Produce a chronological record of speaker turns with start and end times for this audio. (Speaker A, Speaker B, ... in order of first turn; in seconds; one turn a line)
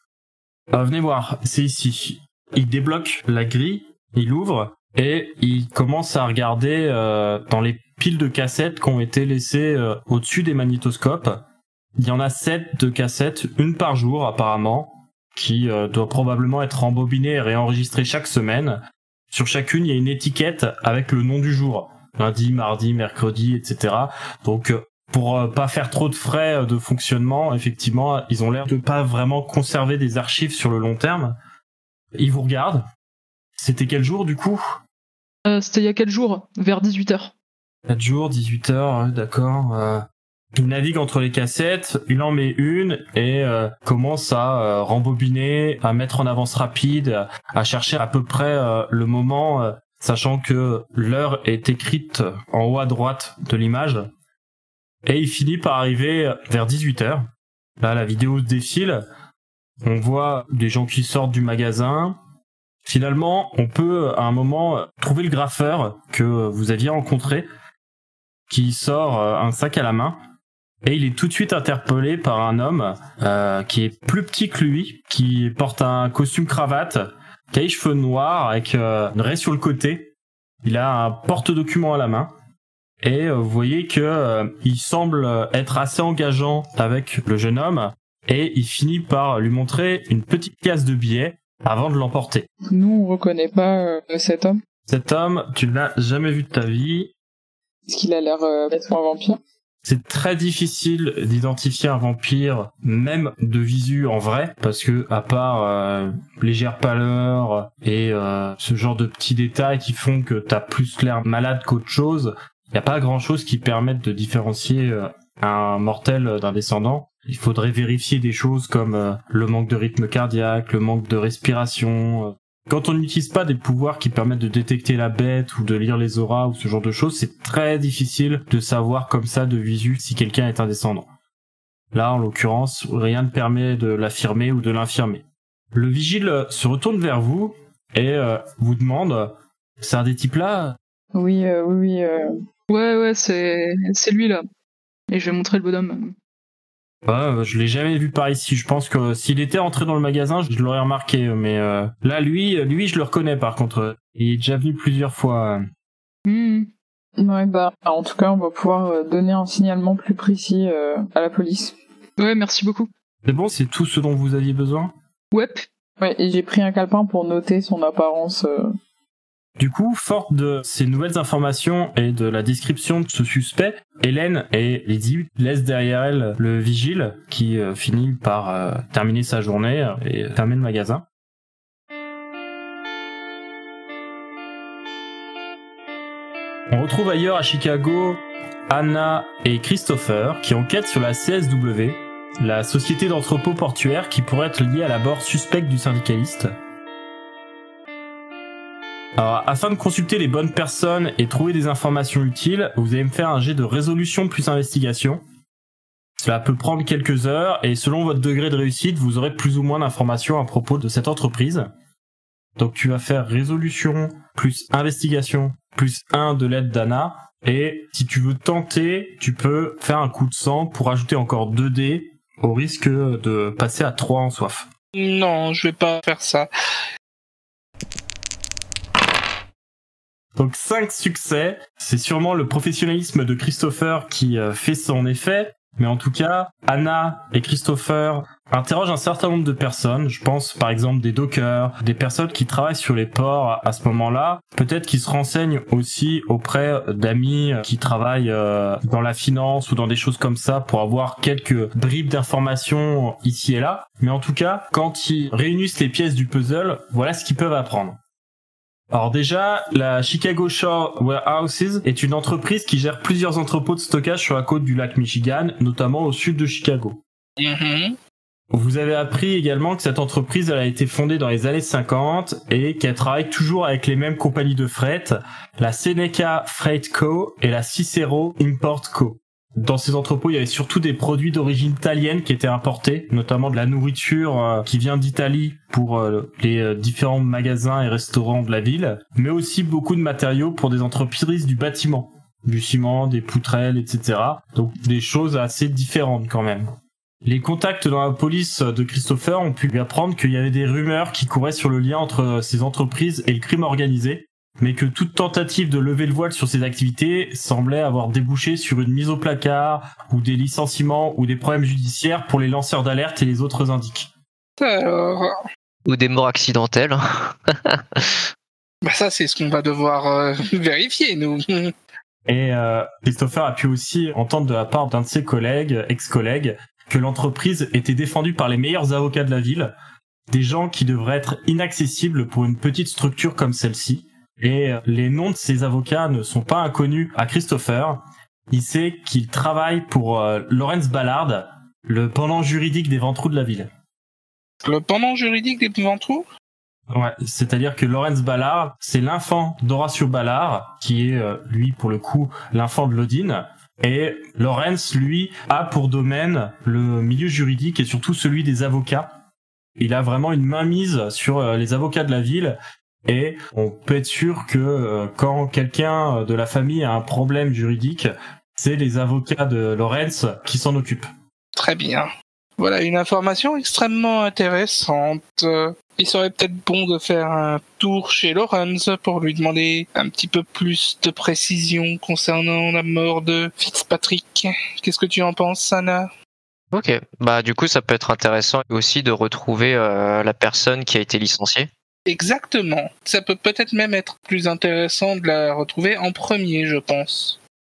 Speaker A: 0.7-11.4
Speaker A: 12.0-18.8
Speaker A: 19.3-31.4
Speaker A: 32.2-32.9
Speaker A: 33.6-34.6
Speaker B: 35.5-37.3
Speaker A: 37.9-54.1
Speaker A: 55.1-57.3
Speaker A: 57.8-59.0
Speaker A: 59.9-62.2
Speaker A: 62.8-67.5
Speaker A: 68.5-70.2
Speaker A: 70.8-80.1
Speaker A: 80.6-82.3
Speaker A: 83.0-92.5
Speaker C: 92.7-94.6
Speaker A: 94.9-97.1
Speaker C: 97.9-99.4
Speaker A: 99.8-131.1
Speaker A: 131.9-140.8
Speaker C: 141.1-142.3
Speaker B: 142.7-144.4
Speaker B: 145.1-146.2
Speaker A: 147.1-155.6
Speaker B: 156.3-156.7
Speaker C: 157.2-161.8
Speaker B: 162.2-162.9
Speaker A: 163.2-164.9
Speaker B: 165.3-165.7
Speaker C: 166.0-168.7
Speaker A: 169.6-181.1
Speaker A: 186.7-196.5
Speaker A: 199.2-205.2
Speaker A: 206.2-211.7
Speaker A: 212.6-224.7
Speaker D: 224.9-226.5
Speaker A: 230.4-258.0
Speaker A: 258.9-267.0
Speaker D: 267.4-268.0
Speaker A: 268.5-296.7
Speaker A: 297.2-314.1
Speaker D: 314.6-315.4
Speaker E: 315.9-318.2
Speaker D: 318.8-321.7
Speaker A: 322.2-329.7
Speaker A: 330.3-343.7
Speaker D: 344.6-346.3
Speaker A: 346.9-359.1
Speaker A: 359.8-371.1
Speaker D: 371.6-386.1
Speaker E: 386.7-391.7
Speaker D: 392.1-397.4